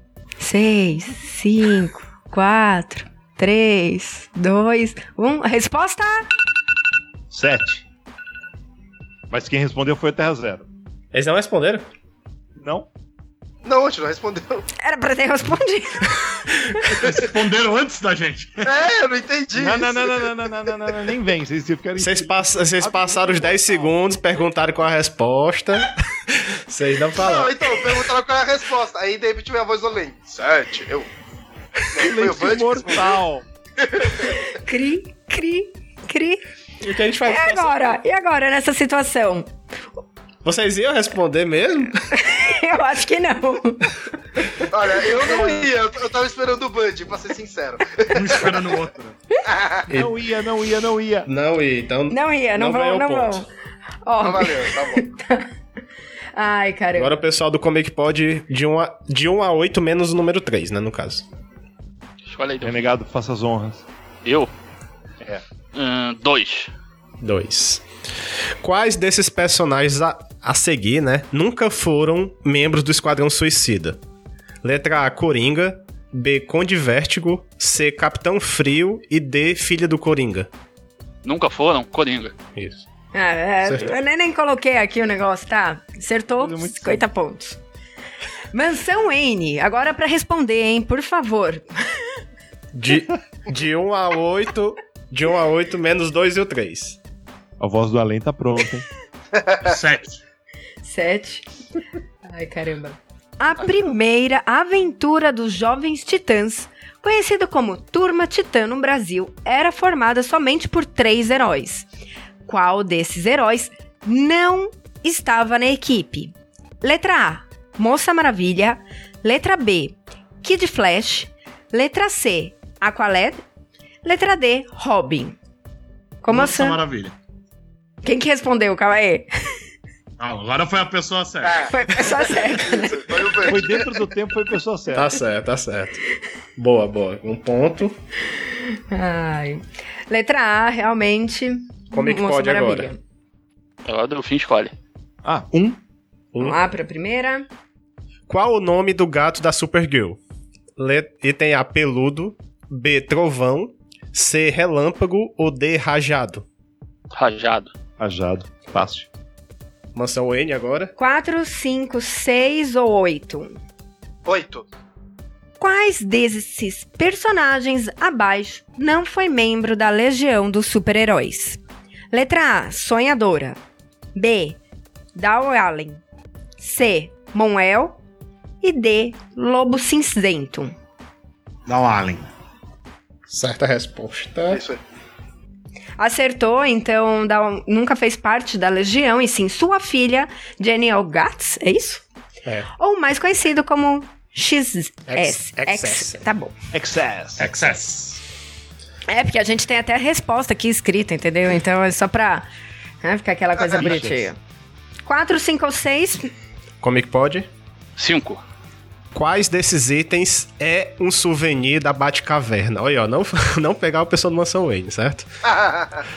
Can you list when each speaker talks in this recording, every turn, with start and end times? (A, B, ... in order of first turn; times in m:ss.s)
0:00.4-0:06.3 A
0:07.3-0:07.8 B
0:09.3-0:10.7 B
0:11.1-0:11.9 C
0:12.6-0:12.9 B
0:13.6-0:14.7 D
0:14.8-0:16.1 A
0:17.0-0:18.7 E
0:18.6-0:20.2 D
0:19.5-0:23.7 B
0:22.0-0:28.1 C
0:27.2-0:31.1 D
0:31.9-0:33.1 D
0:32.0-0:33.4 B
0:33.8-0:34.2 D
0:34.3-0:36.4 A
0:36.8-0:37.9 C
0:37.2-0:39.5 A
0:40.4-0:42.1 C
0:42.2-0:44.0 A
0:44.7-0:48.7 D
0:48.1-0:49.2 E
0:49.4-0:49.9 D
0:49.9-0:51.3 B
0:49.9-0:50.1 C
0:51.2-0:53.5 C
0:52.1-0:53.5 A
0:54.0-0:55.5 A
0:54.2-0:55.0 D
0:56.3-0:57.2 A
0:56.9-1:01.2 C
1:02.2-1:02.8 F
1:02.6-1:03.8 B
1:04.2-1:04.5 F
1:05.7-1:06.7 F
1:07.2-1:07.8 C
1:08.6-1:14.0 C
1:14.6-1:20.5 C
1:21.2-1:22.3 F
1:22.6-1:22.8 C
1:23.1-1:27.6 A
1:23.6-1:23.9 C
1:26.4-1:27.1 B
1:28.5-1:32.0 A
1:32.7-1:37.0 C
1:37.6-1:38.8 B
1:39.4-1:39.7 D
1:39.6-1:40.2 E
1:40.8-1:41.5 A
1:42.2-1:51.9 A
1:52.4-2:03.4 A
2:04.0-2:05.4 A
2:06.2-2:06.8 A
2:06.3-2:07.1 E
2:08.0-2:09.3 A
2:10.2-2:11.7 E
2:11.7-2:13.0 A
2:12.6-2:13.9 D
2:13.4-2:15.1 B
2:14.9-2:16.0 C
2:16.6-2:17.9 C
2:18.5-2:23.0 A
2:21.9-2:22.9 C
2:23.8-2:24.7 F
2:25.2-2:25.8 B
2:26.3-2:26.6 C
2:26.4-2:27.4 A
2:28.3-2:30.2 C
2:30.8-2:36.4 C
2:37.1-2:37.7 F
2:38.0-2:39.1 B
2:39.9-2:40.9 C
2:41.0-2:43.6 A
2:44.2-2:44.6 D
2:45.6-2:51.6 A
2:52.1-2:53.6 A
2:54.1-2:54.6 A
2:55.1-2:56.0 A
2:56.6-2:58.0 A
2:58.6-3:00.7 A
3:01.6-3:02.2 E
3:03.3-3:04.6 C
3:04.5-3:04.8 D
3:06.0-3:12.0 A
3:12.8-3:16.5 A
3:15.1-3:16.2 C
3:16.7-3:17.5 B
3:17.4-3:18.2 E
3:17.4-3:17.8 C
3:19.1-3:22.5 A
3:23.0-3:24.4 A
3:23.8-3:24.2 B
3:25.0-3:26.3 A
3:26.8-3:27.5 C
3:28.0-3:28.4 F
3:29.1-3:35.3 C
3:35.4-3:36.0 D